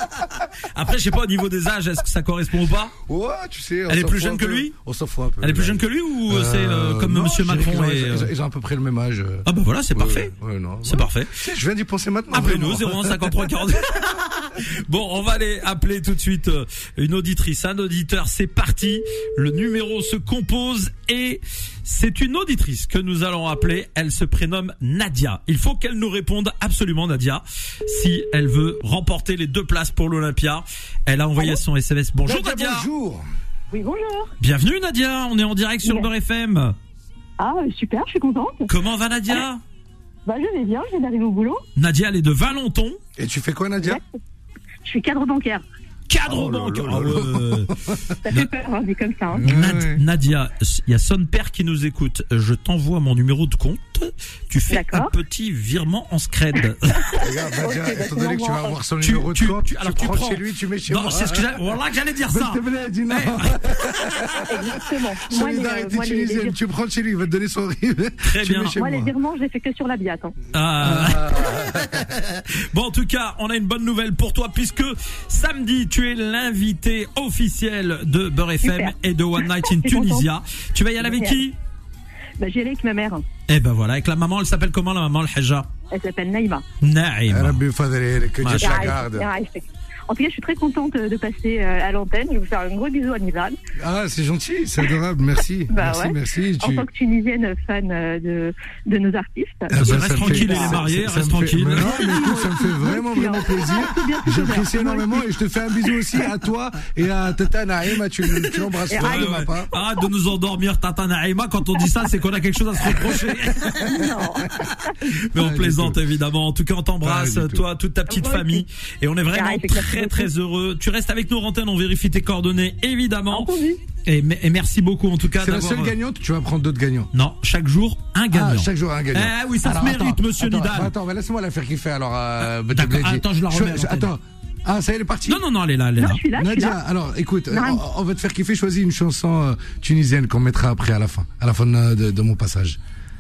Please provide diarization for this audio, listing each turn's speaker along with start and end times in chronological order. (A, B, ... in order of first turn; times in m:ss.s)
0:00.6-0:02.9 A
0:03.0-0:13.6 B
0:03.9-0:04.7 A
0:05.4-0:08.3 A
0:09.4-0:10.3 A
0:10.8-0:11.3 A
0:12.3-0:32.9 A
0:32.2-0:33.2 B
0:33.7-0:34.3 C
0:34.4-0:36.8 A
0:37.4-0:38.7 C
0:38.7-0:39.6 A
0:40.3-0:41.6 C
0:41.8-0:43.0 A
0:43.2-0:44.0 B
0:44.8-0:45.6 C
0:46.1-0:47.7 A
0:46.2-0:48.2 B
0:48.3-0:49.5 C
0:49.4-0:50.0 B
0:49.4-0:57.1 A
0:54.7-0:55.1 C
0:57.1-0:58.8 C
0:57.2-1:01.7 B
0:59.0-1:03.6 A
1:02.3-1:04.5 B
1:04.5-1:06.6 C
1:05.3-1:09.1 B
1:08.2-1:08.8 A
1:08.8-1:10.4 C
1:10.5-1:21.6 A
1:10.8-1:12.1 B
1:18.6-1:20.3 C
1:21.1-1:21.4 C
1:22.4-1:23.2 C
1:23.5-1:25.7 A
1:25.9-1:26.6 C
1:26.8-1:27.6 A
1:27.3-1:29.3 B
1:28.4-1:28.9 A
1:28.6-1:33.6 C
1:33.8-1:36.9 B
1:35.7-1:39.7 C
1:39.7-1:49.7 B
1:39.7-1:42.1 A
1:40.2-1:40.8 C
1:41.8-1:45.3 C
1:48.9-1:49.3 C
1:49.0-1:54.0 A
1:52.9-1:54.8 B
1:53.9-1:54.6 C
1:55.1-2:03.5 A
1:55.3-1:56.0 B
1:57.0-1:57.6 B
1:58.1-1:58.6 C
1:59.3-2:00.3 C
2:03.3-2:03.8 C
2:04.0-2:05.9 A
2:05.3-2:07.1 B
2:07.1-2:10.9 A
2:08.3-2:15.4 B
2:12.4-2:14.1 A
2:15.3-2:16.2 A
2:16.0-2:16.8 C
2:16.3-2:22.8 B
2:17.5-2:17.8 C